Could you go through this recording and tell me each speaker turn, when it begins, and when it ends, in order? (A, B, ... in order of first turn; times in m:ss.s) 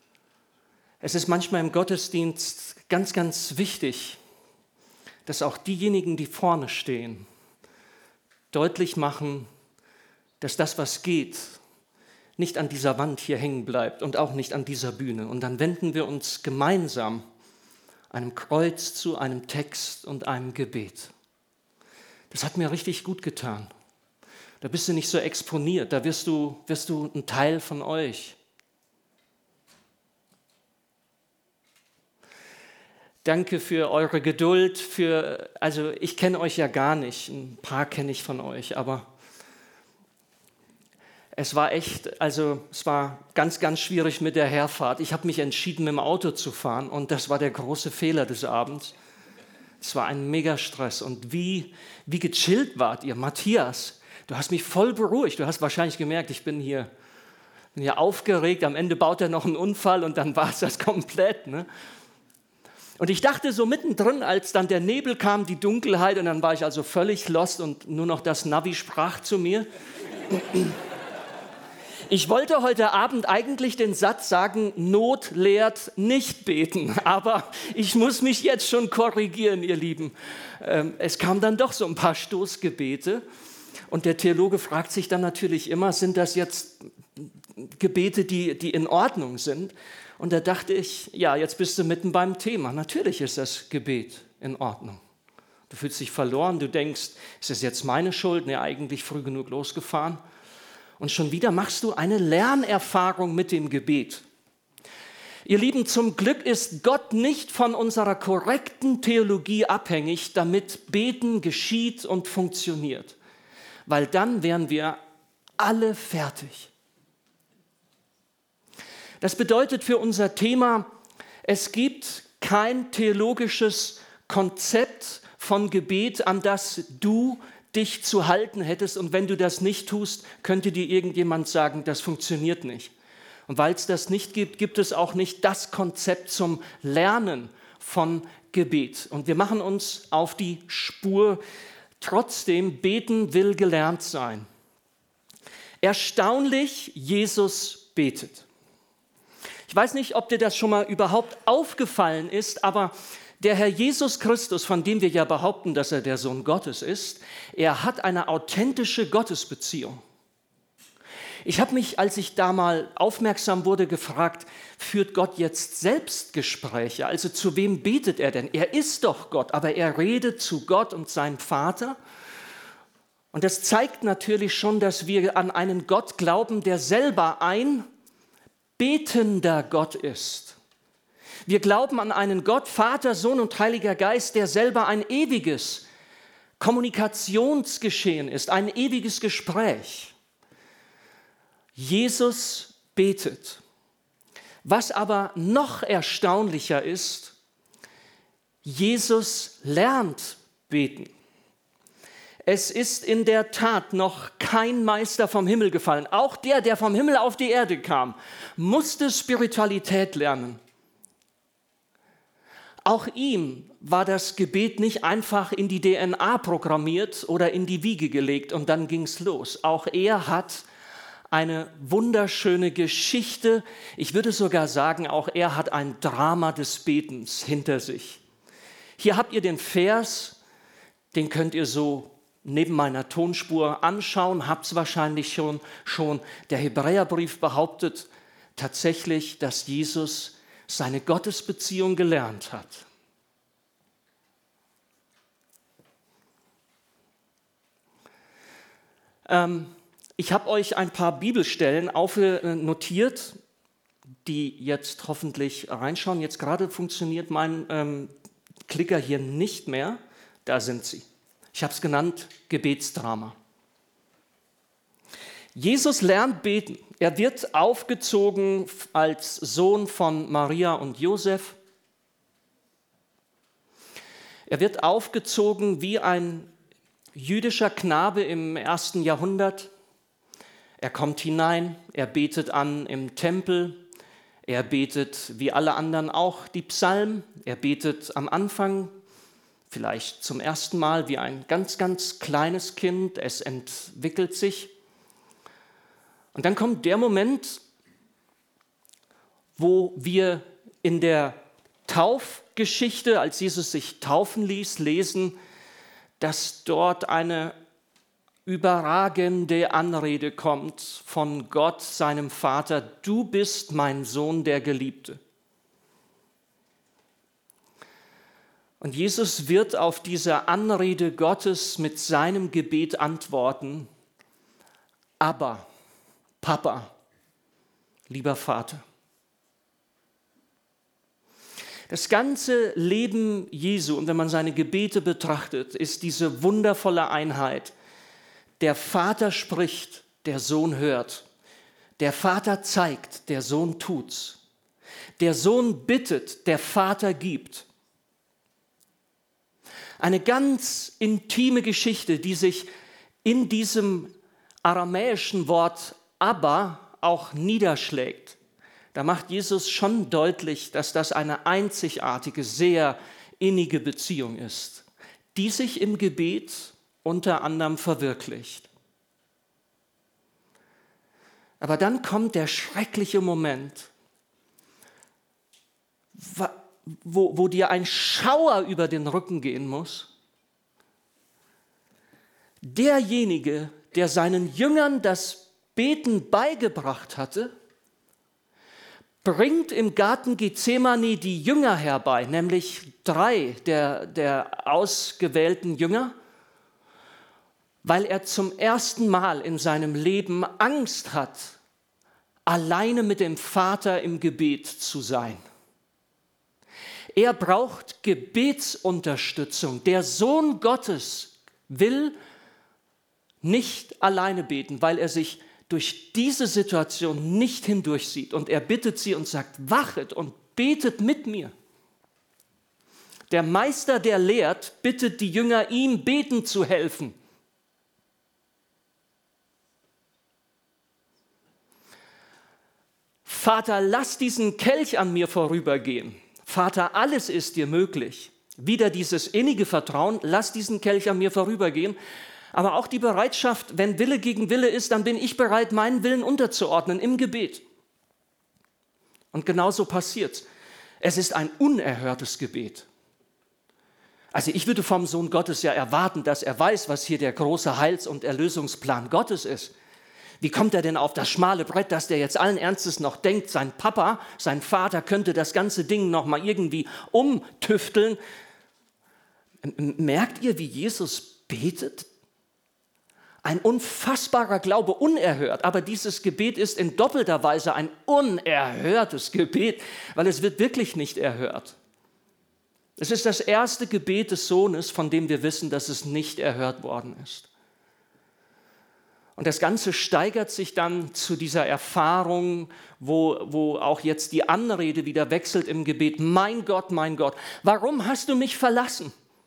0:01.0-0:04.2 A
0:05.2-0:07.2 A
0:08.5-0:09.5 A
0:10.4-0:11.6 A
0:12.4-0:17.2 A
0:18.1-0:21.1 A
0:22.3-0:23.7 A
0:24.6-0:28.4 A
0:33.2-0:39.1 A
0:41.3-0:48.9 A
0:49.8-0:56.9 A
0:57.7-1:01.7 A
1:03.0-1:09.7 A
1:10.3-1:10.8 A
1:12.1-1:23.2 A
1:23.9-1:35.0 A
1:35.7-1:40.2 A
1:41.0-1:44.2 A
1:45.4-1:53.2 A
1:53.9-1:55.0 A
1:55.6-1:56.7 A
1:59.2-2:00.9 A
2:01.4-2:12.9 A
2:13.5-2:21.4 A
2:22.0-2:24.5 A
2:25.8-2:28.4 A
2:29.7-2:40.0 A
2:41.4-2:52.0 A
2:53.3-2:57.8 A
2:58.8-3:00.6 A
3:01.4-3:05.8 A
3:06.6-3:10.1 A
3:11.8-3:13.6 A
3:14.6-3:17.3 A
3:18.6-3:21.1 A
3:22.4-3:30.6 A
3:32.8-3:40.6 A
3:41.3-3:48.2 A
3:49.0-3:50.4 A
3:51.1-4:02.8 A
4:09.2-4:13.3 A
4:14.2-4:18.1 A
4:18.7-4:23.3 A
4:25.5-4:31.6 A
4:34.5-4:36.5 A
4:37.1-4:39.7 A
4:40.8-4:43.8 A
4:44.4-4:48.9 A
4:49.7-4:54.7 A
4:56.3-4:57.6 A
4:59.6-5:05.4 A
5:06.2-5:07.5 A
5:08.4-5:15.2 A
5:18.8-5:23.9 A
5:25.2-5:25.7 A
5:26.4-5:26.9 A
5:28.1-5:28.8 A
5:31.9-5:37.7 A
5:38.6-5:41.2 A
5:42.0-5:44.4 A
5:45.2-5:47.7 A
5:50.0-5:52.7 A
5:53.2-5:54.1 A
5:54.6-5:58.4 A
5:58.9-6:08.7 A
6:11.6-6:13.9 A
6:16.2-6:20.1 A
6:22.6-6:27.5 A
6:29.2-6:36.1 A
6:37.8-6:41.6 A
6:42.5-6:45.4 A
6:47.1-6:52.2 A
6:53.4-7:01.5 A
7:03.3-7:07.1 A
7:13.2-7:22.0 A
7:22.5-7:27.6 A
7:29.3-7:30.4 A
7:31.0-7:32.9 A
7:34.3-7:39.7 A
7:40.4-7:48.2 A
7:49.6-7:52.1 A
7:53.4-8:01.8 A
8:03.0-8:07.5 A
8:09.4-8:19.1 A